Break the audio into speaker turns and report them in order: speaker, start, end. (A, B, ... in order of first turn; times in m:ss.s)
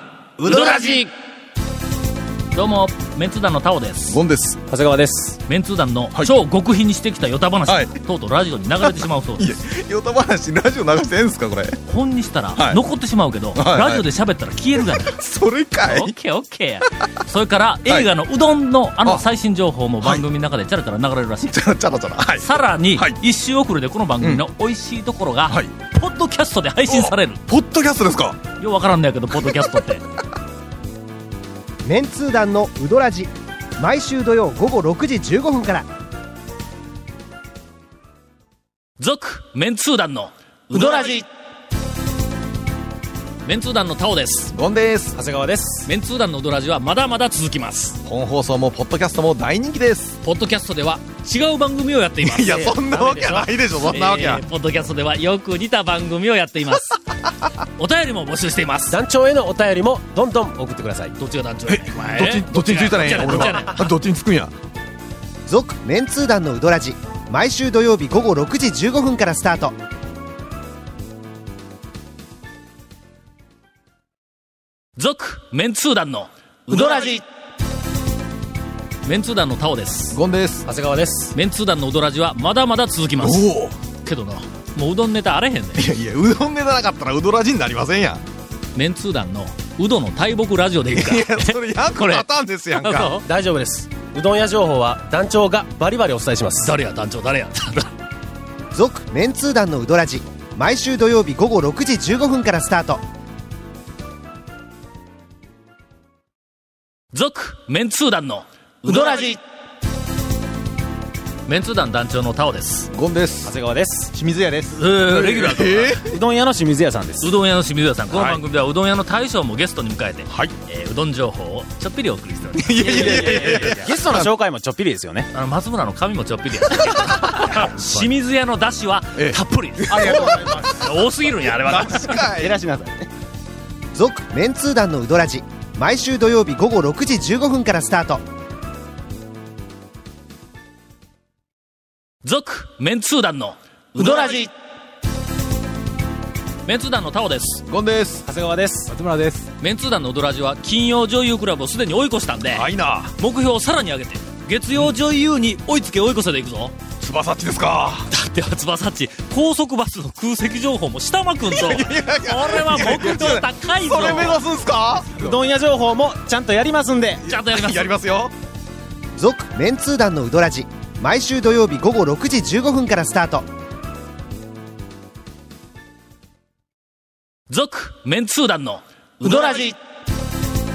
0:00.4-0:01.0 A
0:00.4-0:01.1 B
0:02.5-0:04.2 B
0:04.1-0:04.6 C
0:04.7-0:05.4 A
0:05.5-0:09.5 B
0:08.8-0:11.8 C
0:11.9-0:15.2 B
0:12.5-0:12.8 C
0:13.5-0:14.0 C
0:15.0-0:16.1 C
0:15.8-0:21.6 B
0:21.5-0:23.2 C
0:22.4-0:27.4 B
0:26.9-0:28.4 C
0:28.6-0:30.0 B
0:31.8-0:35.9 D
0:39.0-0:41.3 B
0:43.4-0:44.5 B
0:44.5-0:45.2 C
0:45.2-0:45.9 A
0:45.9-0:48.0 B
0:48.0-0:50.2 C
0:50.2-0:53.3 B
0:52.2-0:54.4 C
0:52.5-0:53.3 A
0:53.8-0:57.0 B
0:57.8-0:59.0 B
0:58.9-1:01.1 A
1:01.2-1:03.9 B
1:01.7-1:04.5 C
1:05.5-1:09.7 D
1:15.0-1:17.2 B
1:19.0-1:20.2 B
1:20.1-1:20.6 C
1:20.6-1:21.3 A
1:21.3-1:23.5 B
1:23.2-1:23.8 C
1:24.0-1:25.9 B
1:25.8-1:28.2 C
1:28.7-1:32.2 B
1:30.9-1:33.1 C
1:32.8-1:33.2 B
1:33.2-1:36.7 A
1:36.6-1:37.9 B
1:38.7-1:43.0 D
1:47.1-1:49.4 B
1:51.4-1:52.9 B
1:52.9-1:53.5 C
1:53.4-1:54.1 A
1:54.1-1:56.1 C
1:54.7-1:56.0 B
1:56.1-1:57.3 A
1:57.2-2:03.8 B
1:58.1-1:58.4 C
2:02.6-2:04.3 C
2:02.8-2:05.3 A
2:05.3-2:12.2 B
2:09.2-2:12.6 C
2:10.0-2:10.7 A
2:12.3-2:13.1 A
2:14.0-2:18.2 D
2:22.2-2:24.5 B
2:26.7-2:27.6 B
2:27.7-2:28.2 C
2:28.2-2:28.9 A
2:28.9-2:29.4 C
2:29.6-2:36.8 B
2:32.5-2:33.1 C
2:37.0-2:38.1 C
2:38.1-2:44.4 B
2:41.5-2:45.3 C
2:45.2-2:47.2 A
2:47.2-2:48.3 C
2:47.2-2:47.9 B
2:49.2-2:53.4 D
2:57.5-2:59.8 B